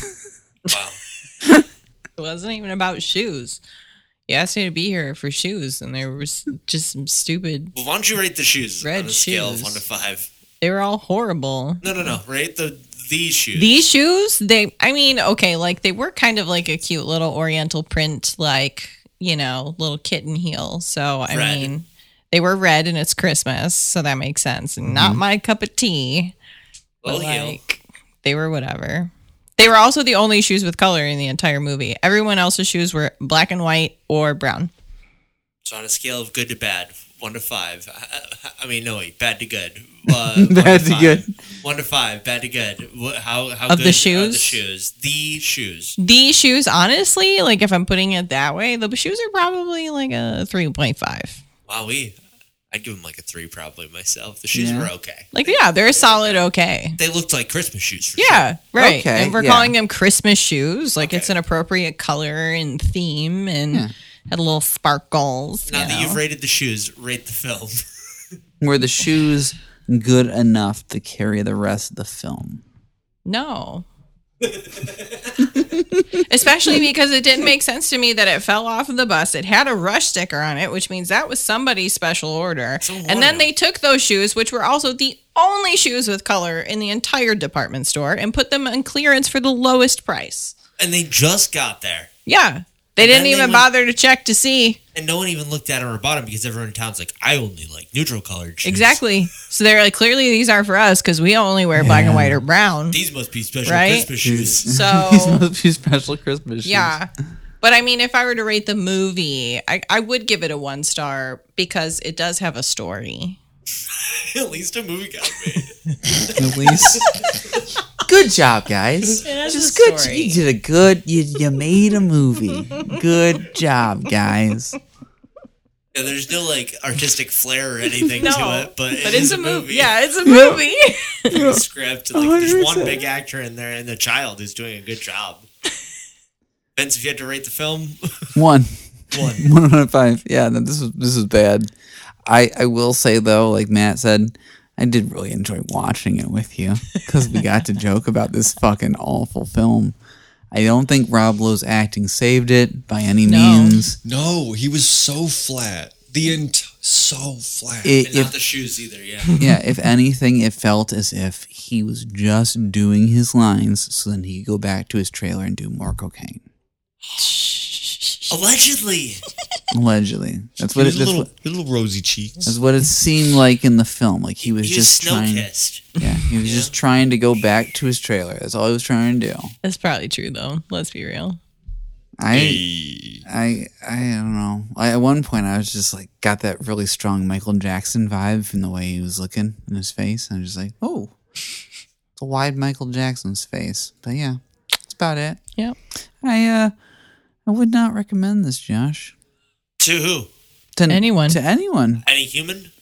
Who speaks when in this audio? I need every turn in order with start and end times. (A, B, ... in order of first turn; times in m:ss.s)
0:00.7-0:01.0 A
0:02.2-0:03.6 B
0:04.3-0:07.7 B
0:07.8-0:10.3 A
0:08.8-0:09.8 B
0:10.6-0:12.1 B
0:11.8-0:13.8 A
0:13.6-0:26.4 B
0:21.3-0:21.7 A
0:24.8-0:25.2 C
0:27.0-0:27.6 A
0:27.0-0:34.7 B
0:35.6-0:46.0 A
0:40.1-0:41.3 C
0:43.7-0:44.6 B
0:46.0-0:51.4 B
0:51.7-0:52.2 A
0:52.7-0:56.4 A
0:54.5-0:54.9 C
0:55.3-0:57.0 B
0:57.0-0:58.4 A
0:58.2-1:06.2 B
0:58.8-0:59.8 C
1:01.0-1:01.3 A
1:05.7-1:07.8 A
1:08.6-1:12.6 C
1:13.3-1:13.9 B
1:14.4-1:15.4 A
1:16.3-1:30.5 B
1:22.8-1:23.5 A
1:30.8-1:32.1 A
1:32.3-1:34.8 B
1:33.0-1:33.7 A
1:35.0-1:39.0 A
1:38.6-1:43.0 B
1:41.8-1:42.4 C
1:42.9-1:44.7 A
1:43.7-1:44.1 B
1:44.2-1:47.0 C
1:44.7-1:45.4 B
1:46.6-1:47.1 B
1:47.6-1:53.4 B
1:54.0-1:57.6 A
1:56.3-1:57.1 C
1:58.0-2:04.8 C
1:59.2-2:00.4 B
2:05.9-2:09.9 A
2:08.2-2:11.3 B
2:10.2-2:10.6 C
2:11.3-2:13.0 C
2:11.3-2:15.5 A
2:16.8-2:18.4 A
2:18.4-2:21.7 C
2:19.1-2:19.5 A
2:22.3-2:30.0 C
2:30.5-2:34.0 C
2:33.2-2:33.8 B
2:34.0-2:37.9 D
2:37.8-2:38.3 C
2:38.0-2:39.4 A
2:39.4-2:46.4 C
2:47.2-2:48.4 B
2:48.3-2:49.2 A
2:49.7-2:51.3 C
2:50.6-2:52.6 D
2:52.5-2:59.5 C
2:54.4-2:55.9 A
2:56.4-2:56.7 A
2:59.6-3:01.4 B
3:02.2-3:02.6 C
3:02.3-3:03.2 D
3:03.2-3:11.1 C
3:12.2-3:15.4 C
3:16.2-3:16.7 C
3:17.5-3:19.2 C
3:19.8-3:20.3 A
3:20.8-3:22.0 C
3:20.9-3:21.4 B
3:22.0-3:22.7 A